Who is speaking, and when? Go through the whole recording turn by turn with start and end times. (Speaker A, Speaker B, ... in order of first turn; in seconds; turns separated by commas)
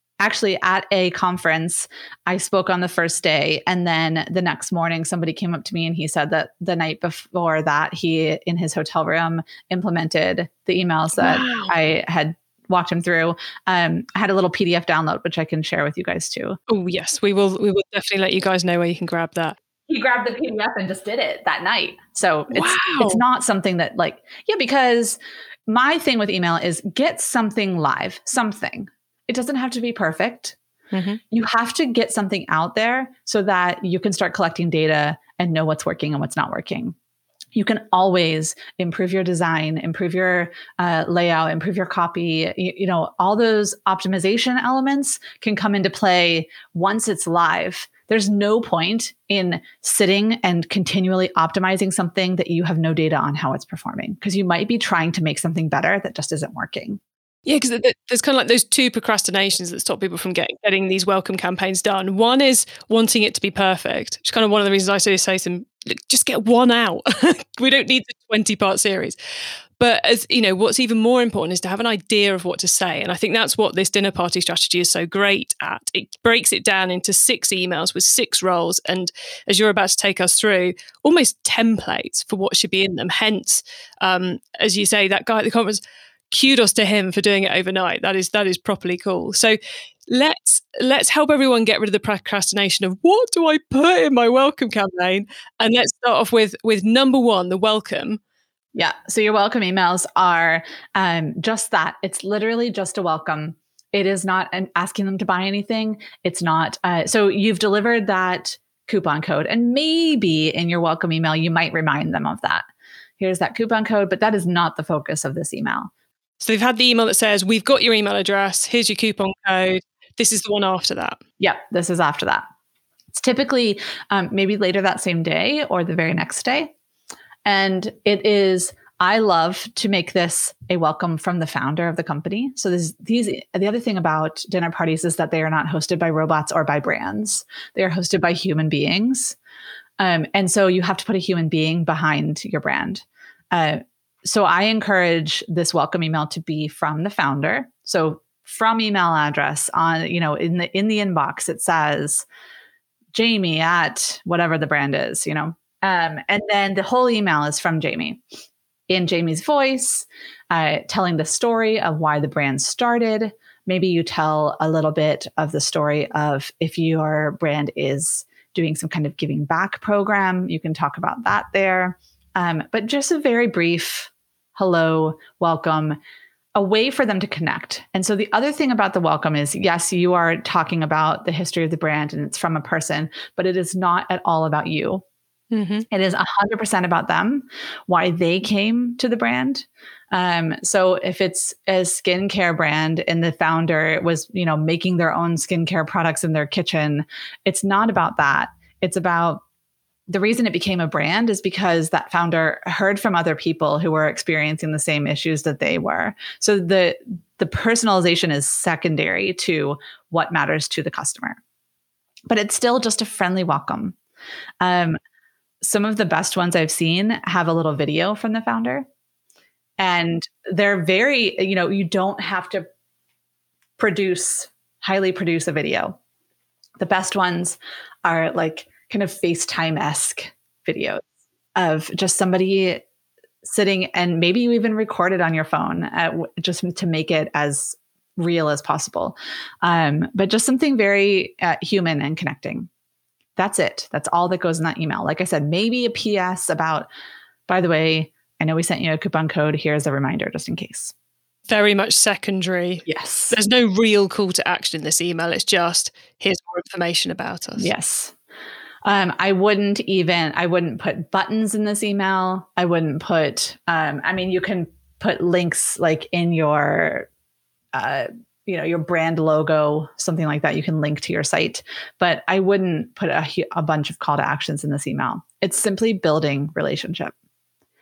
Speaker A: 0.2-16.6, Speaker B: 11.2-11.7, Speaker B: 16.7-19.6, Speaker A: 19.9-30.6, Speaker B: 22.5-23.2, Speaker B: 30.9-31.2, Speaker A: 31.3-37.0, Speaker A: 37.5-57.0, Speaker B: 57.5-69.2, Speaker B: 69.8-98.2, Speaker A: 98.8-112.7, Speaker A: 113.2-115.9, Speaker B: 116.4-121.2, Speaker A: 121.4-122.5, Speaker A: 123.1-126.7, Speaker A: 127.5-139.4, Speaker A: 140.0-152.3, Speaker A: 153.1-158.2, Speaker A: 158.9-176.0, Speaker A: 176.6-185.0, Speaker B: 185.5-185.9, Speaker A: 185.9-199.4, Speaker A: 200.1-211.4, Speaker A: 212.3-214.0, Speaker A: 214.6-215.0, Speaker A: 215.6-218.9, Speaker A: 219.8-222.7, Speaker A: 223.8-226.0, Speaker A: 226.8-232.8, Speaker A: 233.4-242.7, Speaker A: 243.4-246.9, Speaker A: 247.5-250.9, Speaker B: 251.5-257.7, Speaker A: 252.9-253.4, Speaker A: 257.6-258.1, Speaker A: 258.9-267.1, Speaker A: 267.7-277.1